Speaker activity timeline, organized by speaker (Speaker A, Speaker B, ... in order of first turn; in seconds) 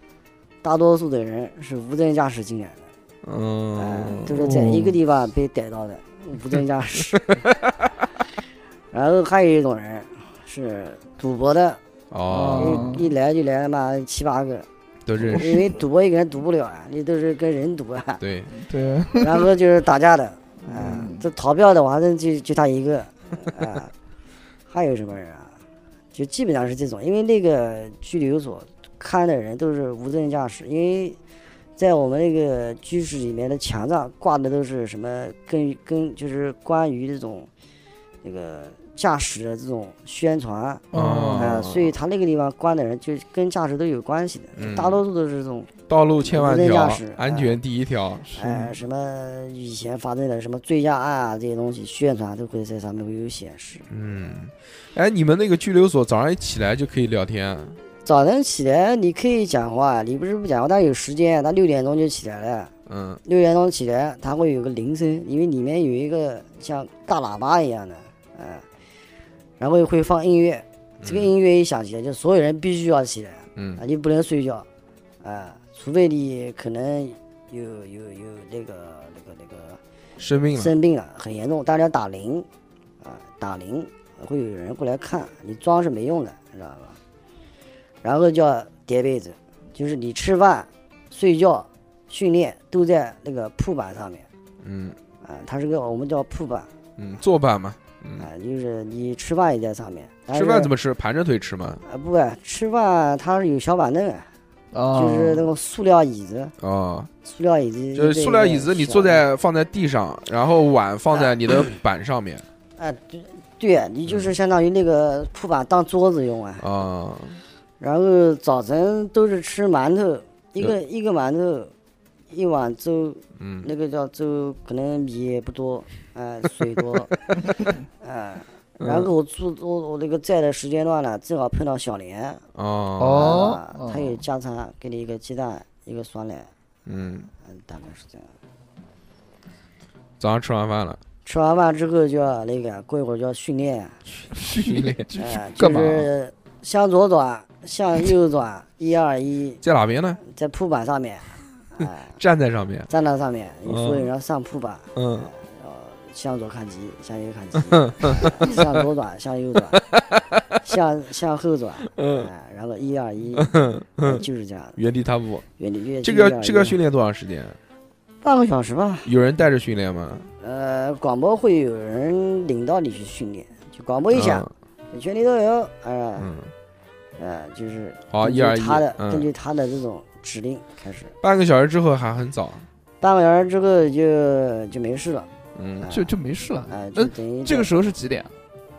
Speaker A: 0.6-2.9, 3.8-7.3, 8.9-11.8, 12.5-14.7, 15.3-18.2, 19.2-23.9, 24.7-25.5, 26.1-31.2, 31.8-37.5, 38.2-40.8, 41.4-45.7, 46.2-47.6, 48.3-53.9, 58.0-62.7, 63.2-68.7, 69.6-74.7, 75.2-79.8, 80.5-82.5, 83.0-87.0, 88.0-94.2, 95.2-96.7, 98.2-100.7, 101.8-104.3, 104.9-106.5, 107.2-109.2, 112.8-116.6, 117.8-121.7, 122.3-127.2, 128.0-132.4, 133.1-136.5, 137.4-138.3, 141.2-144.0, 145.1-149.6, 150.2-152.2, 152.9-159.8, 160.6-164.8, 165.6-166.8, 168.2-169.1, 170.4-176.3, 177.2-181.1, 183.0-185.3, 185.8-186.1, 186.7-187.7
Speaker B: 3.2-4.3, 7.4-7.7, 12.1-12.8, 15.1-15.6, 18.2-18.5, 40.9-41.9, 44.5-45.0, 45.9-48.2, 53.9-57.8, 62.9-63.2, 71.0-71.3, 73.5-73.8, 80.2-80.7, 94.6-95.0, 97.0-98.3, 100.3-101.8, 106.6-107.1, 107.9-112.5, 116.6-117.4, 123.4-123.7, 128.8-129.1, 132.5-133.4, 136.8-137.3, 140.2-141.0, 144.5-145.1, 149.6-150.2, 152.2-152.9, 153.7-154.1, 154.9-155.3, 157.7-158.7, 159.7-160.4, 161.9-162.3, 163.3-165.4, 166.0-167.6, 169.1-170.3, 174.1-174.5, 176.2-176.5, 178.1-179.3, 181.2-182.7, 185.5-185.9
Speaker C: 4.3-5.0, 12.3-13.1, 18.5-19.5, 20.7-21.2, 40.9-41.5, 48.2-48.7, 104.7-105.5, 133.0-134.2, 144.2-146.1, 185.9-188.3